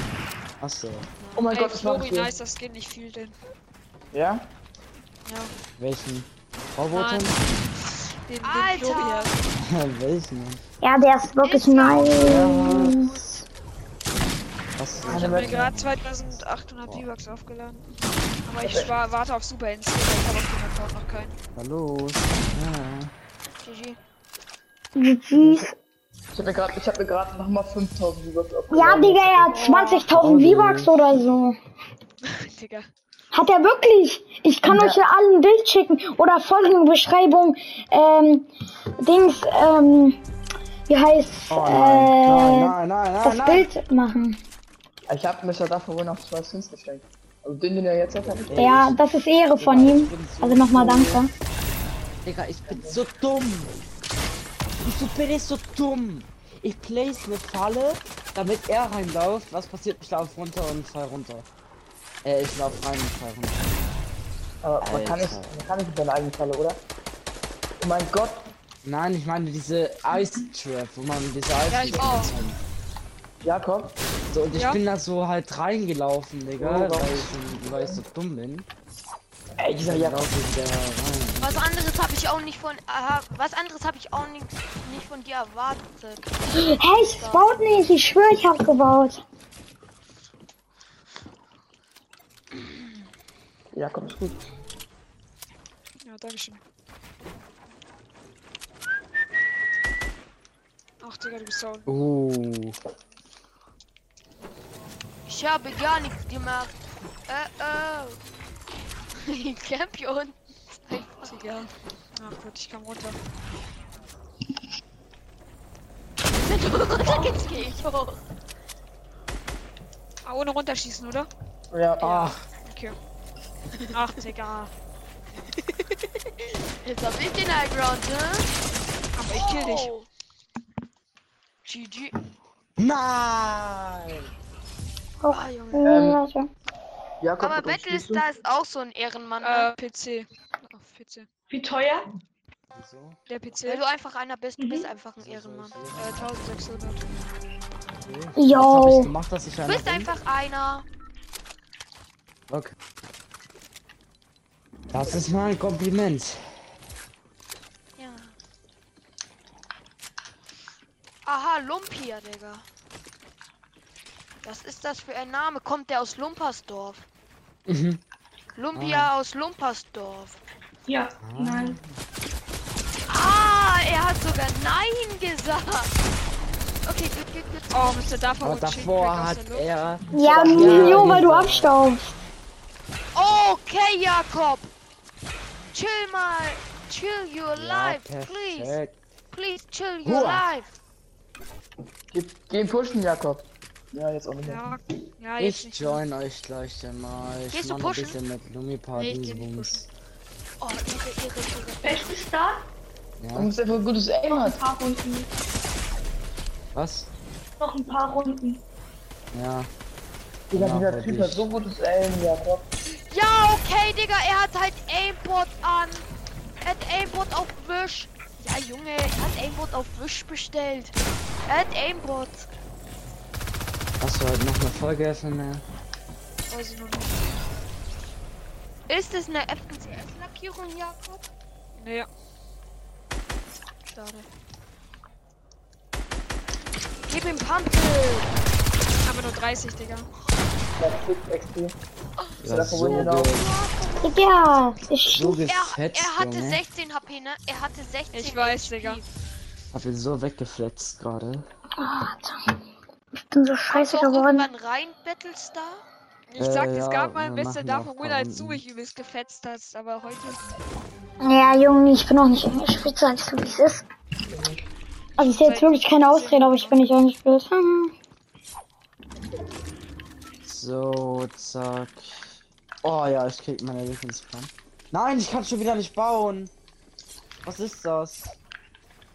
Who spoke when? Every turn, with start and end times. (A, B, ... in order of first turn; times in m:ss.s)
0:00.6-0:01.1 A
0:01.2-0:01.5 B
0:01.4-0:02.4 C
0:01.5-0:03.4 D
0:04.1-0:04.5 C
0:05.3-0:05.5 D
0:05.8-0:07.4 A
0:06.9-0:09.4 D
0:08.4-0:09.4 B
0:09.6-0:10.6 A
0:10.8-0:13.2 E
0:11.4-0:13.3 B
0:12.0-0:13.2 A
0:14.8-0:17.1 A
0:15.0-0:15.7 C
0:15.0-0:17.9 D
0:18.4-0:21.4 D
0:18.6-0:19.0 C
0:21.6-0:23.1 A
0:23.5-0:24.0 B
0:25.0-0:25.8 E
0:25.4-0:25.7 C
0:26.3-0:29.7 C
0:28.7-0:31.6 E
0:29.5-0:30.0 D
0:30.1-0:31.1 A
0:32.3-0:32.9 D
0:33.3-0:40.2 E
0:34.7-0:35.0 C
0:40.9-0:44.4 E
0:41.5-0:43.7 A
0:45.1-0:48.8 C
0:48.5-0:49.0 A
0:48.6-0:51.3 E
0:49.6-0:51.3 A
0:52.2-0:53.7 A
0:52.7-0:53.0 C
0:54.8-1:01.5 A
1:02.2-1:03.7 A
1:04.6-1:06.8 C
1:04.8-1:05.6 A
1:07.8-1:08.5 C
1:08.8-1:12.6 A
1:11.7-1:12.3 D
1:11.9-1:12.3 B
1:13.4-1:14.0 C
1:14.3-1:18.7 A
1:16.6-1:18.0 C
1:19.6-1:20.3 C
1:19.9-1:21.6 A
1:21.4-1:27.6 B
1:26.5-1:29.2 E
1:33.7-1:34.4 C
1:36.0-1:36.6 D
1:41.0-1:41.9 D
1:41.9-1:42.8 A
1:45.3-1:46.7 B
1:47.3-1:48.2 B
1:49.2-1:51.4 B
1:51.2-1:53.2 D
1:56.4-1:58.2 B
1:57.0-1:57.6 F
2:00.2-2:01.3 D
2:01.7-2:02.3 C
2:02.0-2:03.0 D
2:03.9-2:04.7 D
2:05.6-2:08.5 B
2:09.2-2:09.9 D
2:09.3-2:10.1 B
2:11.6-2:12.2 B
2:12.8-2:14.3 A
2:15.2-2:16.5 E
2:15.3-2:16.0 B
2:15.8-2:16.2 C
2:17.2-2:18.3 C
2:17.4-2:19.7 B
2:19.4-2:21.3 D
2:21.5-2:22.1 F
2:22.7-2:23.2 A
2:23.3-2:23.9 D
2:23.6-2:25.8 B
2:24.6-2:24.9 F
2:25.2-2:26.3 A
2:26.0-2:27.2 D
2:28.0-2:30.1 A
2:28.4-2:29.1 E
2:29.6-2:30.8 B
2:32.5-2:32.8 A
2:34.9-2:36.6 A
2:38.0-2:38.4 B
2:41.2-2:42.6 B
2:44.4-2:47.1 B
2:47.7-2:48.0 A
2:48.5-2:50.4 B
2:48.7-2:49.1 A
2:50.9-2:51.8 F
2:51.2-2:51.8 A
2:53.1-2:56.0 B
2:56.8-2:58.4 B
2:57.7-2:59.6 D
2:58.4-3:01.7 A
3:00.1-3:02.2 E
3:00.4-3:01.2 C
3:03.2-3:04.7 B
3:05.7-3:08.8 B
3:07.5-3:09.0 A
3:09.3-3:10.8 B
3:10.0-3:10.5 A
3:12.1-3:14.8 C
3:14.4-3:16.0 D
3:15.4-3:19.8 A
3:17.5-3:18.2 B
3:19.0-3:19.5 B
3:19.4-3:19.8 D
3:20.6-3:22.2 B
3:21.8-3:22.6 F
3:23.2-3:23.5 A
3:23.4-3:24.7 C
3:24.2-3:25.3 F
3:26.7-3:27.1 A
3:27.6-3:28.6 F
3:29.3-3:29.7 A
3:30.5-3:32.7 C
3:30.5-3:31.5 A
3:33.1-3:36.1 B
3:36.6-3:41.0 B
3:41.5-3:42.5 B
3:44.0-3:45.7 A
3:46.5-3:47.2 D
3:48.9-3:51.3 B
3:51.8-3:52.1 D
3:53.9-3:54.3 B
3:57.1-3:58.3 B
3:59.0-4:00.1 D
4:00.8-4:01.8 C
4:02.4-4:03.3 C
4:02.4-4:03.6 A
4:03.3-4:04.4 B
4:04.0-4:05.5 E
4:05.1-4:06.6 A
4:05.3-4:09.1 B
4:08.1-4:09.0 D
4:09.7-4:11.5 A
4:11.8-4:12.4 E
4:13.1-4:14.5 E
4:13.7-4:15.8 B
4:16.3-4:20.4 D
4:16.4-4:18.6 A
4:21.2-4:23.8 E
4:24.3-4:24.6 C
4:25.2-4:27.9 E
4:25.2-4:26.8 D
4:30.4-4:32.3 A
4:32.8-4:36.5 A
4:37.4-4:38.4 A